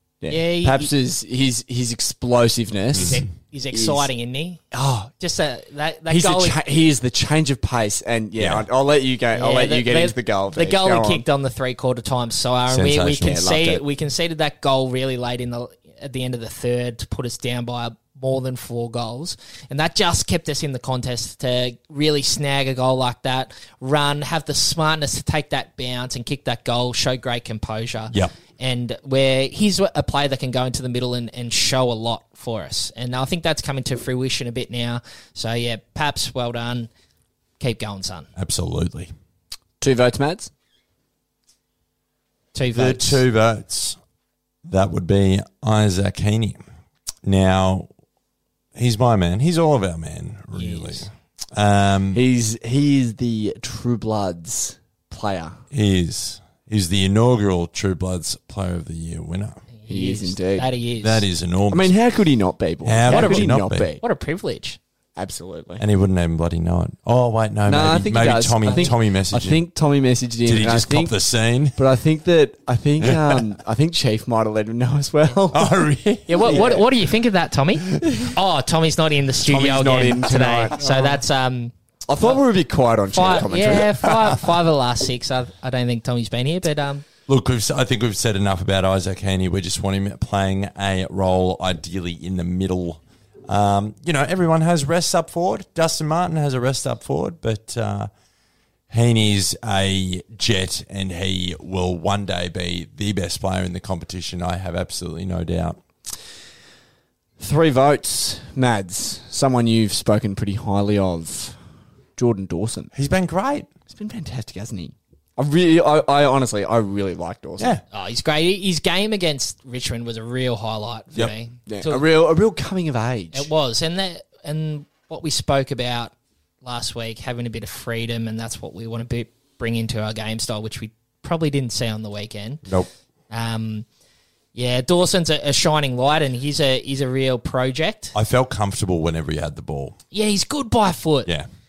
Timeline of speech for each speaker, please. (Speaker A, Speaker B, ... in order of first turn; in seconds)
Speaker A: 0.2-4.1, 4.7-5.1, 6.1-11.2, 13.2-13.8, 39.8-40.5, 52.1-55.6, 59.9-60.7, 61.7-64.0, 65.2-65.8, 67.7-71.2, 71.8-75.8, 76.4-76.8, 79.5-81.2, 82.1-84.1, 107.4-111.6, 112.2-112.9, 113.9-117.8, 121.7-123.5
Speaker B: 0.3-0.9, 3.0-4.6, 5.2-6.6, 9.3-36.9, 37.6-38.3, 42.5-43.2, 50.5-51.0, 59.8-61.2, 63.0-64.8, 76.3-81.7, 83.1-87.0, 117.9-122.0, 123.3-132.6, 133.3-133.8, 134.5-138.1, 140.1-141.3
Speaker C: 2.9-3.2, 8.4-8.7, 12.7-13.4, 38.4-39.1, 42.7-44.0, 44.6-46.6, 47.2-47.9, 48.8-52.2, 55.7-59.6, 61.0-61.9, 62.8-63.9, 65.8-69.6, 70.4-71.8, 73.0-73.4, 75.5-76.8, 87.3-98.1, 98.9-105.8, 112.9-113.7, 138.1-140.0